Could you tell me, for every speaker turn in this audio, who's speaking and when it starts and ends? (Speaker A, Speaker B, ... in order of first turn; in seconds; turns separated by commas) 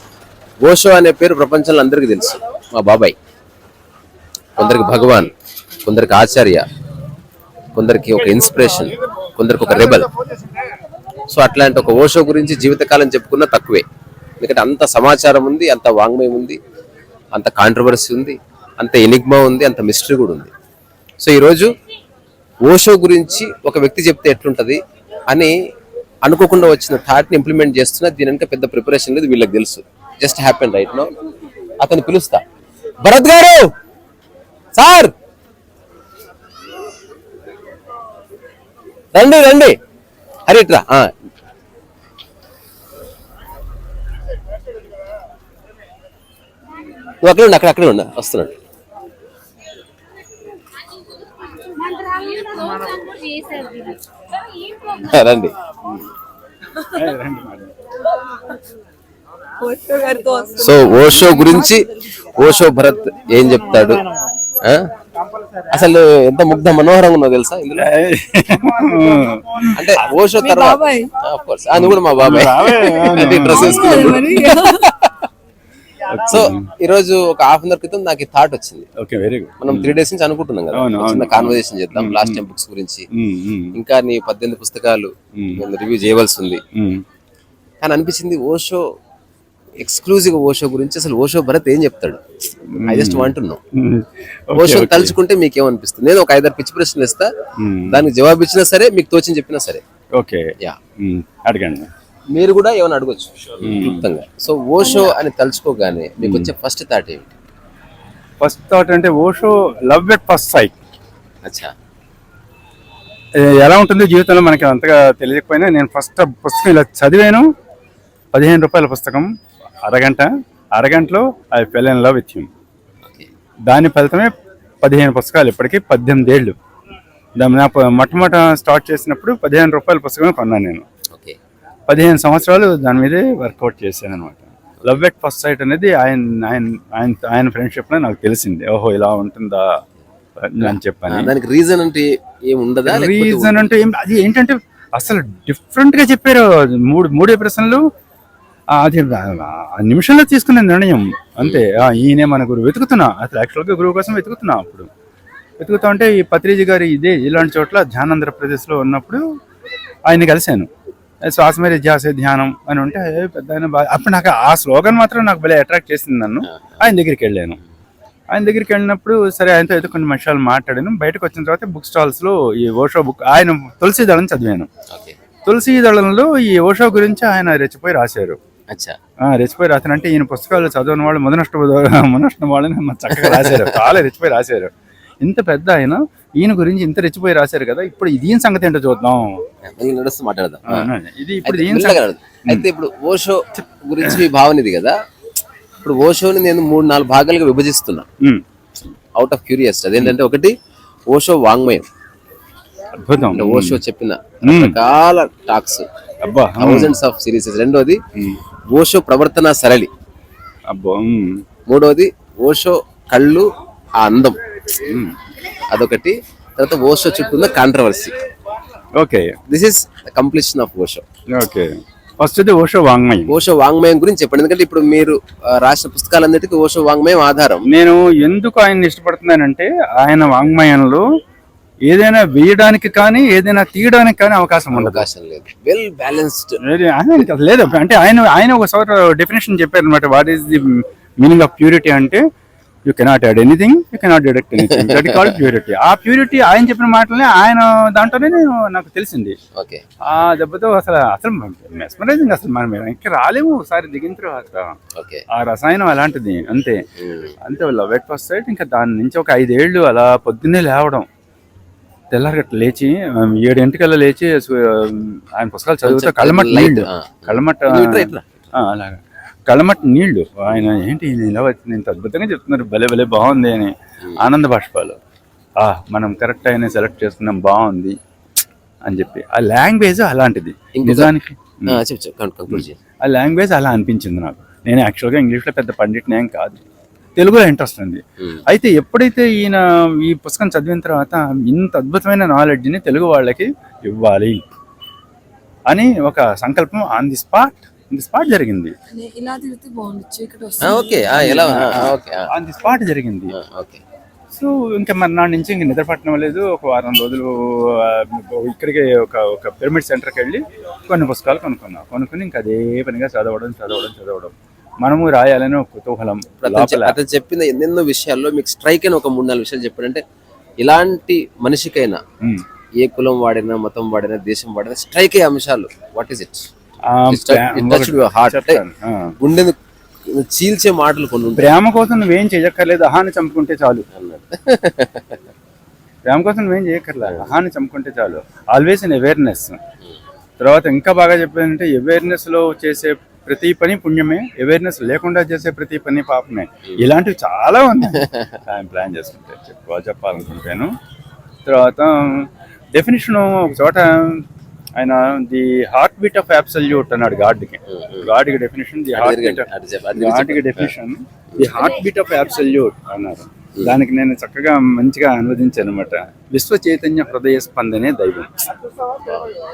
Speaker A: 0.6-3.1, Speaker A: 4.5-5.3, Speaker A: 5.8-6.7, Speaker A: 7.7-10.1, Speaker A: 11.3-13.8, Speaker A: 14.4-16.6, Speaker A: 17.3-20.5, Speaker A: 21.2-21.7, Speaker A: 22.6-24.8, Speaker A: 26.2-31.1, Speaker A: 31.8-32.4, Speaker A: 33.0-33.7, Speaker A: 34.7-35.1, Speaker A: 39.1-39.8, Speaker A: 40.5-41.1, Speaker A: 47.2-48.6, Speaker B: 51.8-55.0, Speaker A: 55.0-55.5, Speaker C: 56.9-57.7, Speaker B: 59.6-62.2, Speaker A: 60.6-64.0, Speaker A: 64.6-64.9, Speaker A: 65.7-67.9, Speaker C: 67.8-70.0, Speaker A: 69.7-74.6, Speaker B: 70.4-71.1, Speaker C: 71.7-74.5, Speaker B: 72.9-74.9, Speaker C: 76.1-76.7, Speaker A: 76.2-78.9, Speaker C: 79.0-80.0, Speaker A: 79.6-83.1, Speaker C: 80.7-82.4, Speaker C: 83.1-83.7, Speaker A: 83.7-86.6, Speaker C: 85.3-85.6, Speaker C: 86.7-87.0, Speaker A: 87.8-88.8, Speaker A: 89.8-92.2, Speaker C: 92.7-95.1, Speaker A: 92.8-93.6, Speaker A: 94.5-97.3, Speaker C: 97.6-98.0, Speaker A: 97.9-99.8, Speaker C: 100.1-101.9, Speaker A: 102.3-107.3, Speaker C: 103.6-104.0, Speaker B: 104.8-105.1, Speaker C: 106.2-106.5, Speaker C: 108.4-110.8, Speaker A: 111.4-111.7, Speaker C: 113.4-117.4, Speaker C: 118.3-119.3, Speaker C: 119.8-122.5, Speaker C: 123.7-126.5, Speaker C: 127.4-130.8, Speaker A: 131.1-131.4, Speaker C: 131.9-139.7, Speaker C: 140.4-141.3, Speaker A: 140.6-143.7, Speaker C: 142.8-147.8, Speaker C: 148.7-154.9, Speaker A: 151.4-151.7, Speaker C: 155.6-159.2, Speaker C: 160.1-160.7, Speaker C: 161.2-167.6, Speaker A: 166.4-166.8, Speaker C: 168.3-174.7, Speaker A: 174.9-175.2, Speaker C: 175.4-178.4, Speaker A: 178.7-179.0, Speaker C: 179.2-189.4, Speaker A: 183.2-183.8, Speaker A: 189.6-190.9, Speaker C: 190.7-192.7, Speaker A: 191.4-195.0, Speaker A: 195.8-198.1, Speaker A: 199.2-200.5, Speaker A: 201.1-201.9, Speaker C: 202.9-203.8, Speaker A: 203.3-205.8, Speaker C: 204.4-204.8, Speaker C: 206.2-206.9, Speaker A: 206.6-208.0, Speaker A: 208.7-209.9, Speaker C: 210.7-211.4, Speaker A: 211.7-214.4, Speaker C: 214.8-215.1, Speaker A: 215.7-218.1, Speaker C: 219.0-219.3, Speaker A: 219.5-221.0, Speaker C: 221.3-223.3, Speaker A: 223.3-227.7, Speaker C: 227.7-231.0, Speaker C: 231.9-235.1, Speaker A: 234.7-236.6, Speaker C: 236.6-242.2, Speaker C: 242.8-249.4, Speaker A: 244.6-245.4, Speaker A: 249.5-249.8, Speaker C: 250.0-254.8, Speaker A: 254.9-255.2, Speaker C: 255.3-256.8, Speaker A: 257.0-257.3, Speaker C: 257.4-261.1, Speaker C: 262.1-275.0, Speaker A: 265.8-268.5, Speaker C: 275.6-277.9, Speaker C: 278.8-281.8, Speaker A: 280.7-281.1, Speaker A: 281.7-282.8, Speaker C: 282.5-286.6, Speaker C: 287.1-294.4, Speaker C: 295.7-298.7, Speaker B: 298.9-301.4, Speaker A: 300.6-302.3, Speaker C: 301.2-303.3, Speaker A: 303.3-303.8, Speaker C: 304.3-316.9, Speaker A: 316.4-320.0, Speaker A: 320.6-322.0, Speaker A: 322.8-326.5, Speaker C: 326.9-329.1, Speaker A: 327.1-328.6, Speaker A: 329.2-331.5, Speaker C: 331.4-333.9, Speaker A: 333.9-335.3, Speaker C: 336.1-339.6, Speaker C: 340.4-350.7, Speaker A: 348.0-348.4, Speaker C: 351.4-354.2, Speaker C: 354.8-368.4, Speaker A: 357.7-358.1, Speaker A: 358.9-360.7, Speaker A: 361.3-361.6, Speaker A: 369.0-369.4